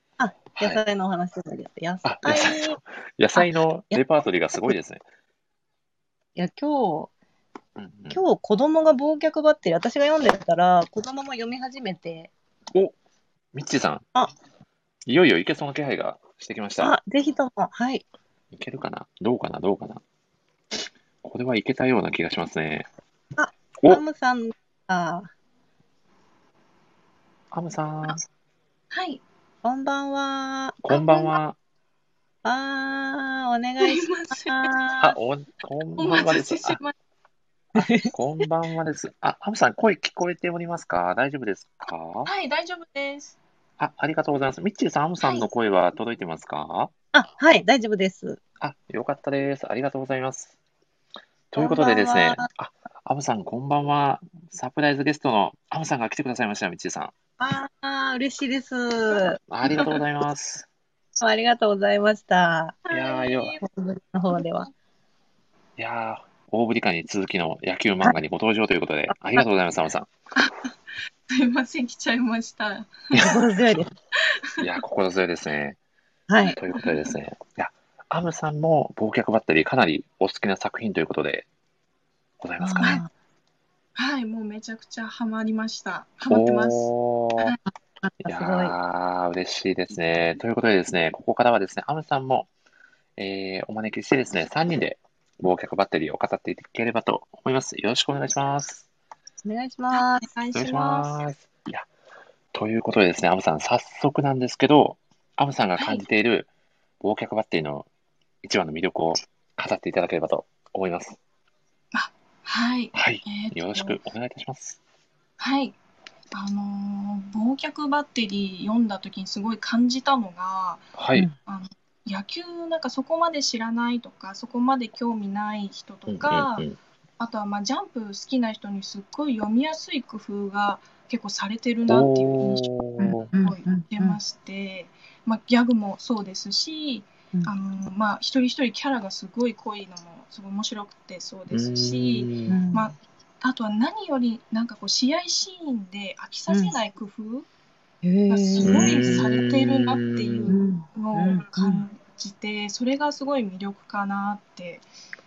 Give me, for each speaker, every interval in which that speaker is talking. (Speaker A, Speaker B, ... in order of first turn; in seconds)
Speaker A: 0.2-2.8, 3.4-4.0, 6.4-7.1, 8.1-12.3, 16.8-18.0, 23.4-25.3, 29.6-31.3, 32.4-35.1, 37.7-38.1, 47.1-48.4, 51.6-52.5, 57.4-59.9, 61.2-62.9, 63.6-64.7, 73.2-73.9, 76.3-76.6, 82.6-83.1, 88.0-88.7, 99.4-100.3, 133.0-134.2, 142.5-142.9, 146.5-146.8, 148.0-149.3, 150.5-151.8
Speaker B: 0.6-0.8, 2.0-5.0, 7.8-8.2, 13.5-14.1, 15.1-16.9, 18.5-20.0, 21.2-22.9, 27.5-28.2, 30.8-31.6, 35.0-36.8, 37.8-42.3, 43.8-46.9, 48.6-50.5, 51.5-57.1, 59.5-60.7, 62.9-63.6, 65.8-70.1, 73.1-73.4, 74.6-75.8, 76.5-81.5, 82.4-83.0, 86.3-87.6, 88.2-92.5, 93.2-98.9, 100.5-101.9, 102.5-106.5, 107.0-107.9, 108.4-111.2, 112.9-114.8, 120.9-121.3, 126.1-126.8, 131.9-133.3, 141.5-142.6, 148.6-150.6
Speaker C: 28.9-29.2, 33.8-34.7, 36.0-36.9, 42.2-43.4, 45.2-45.5, 62.9-63.5, 71.3-73.3, 76.4-77.1, 84.0-87.6, 99.9-101.2, 105.8-106.0, 111.9-114.0, 115.4-115.7, 116.3-120.9, 121.4-126.7, 127.2-147.5, 148.3-154.8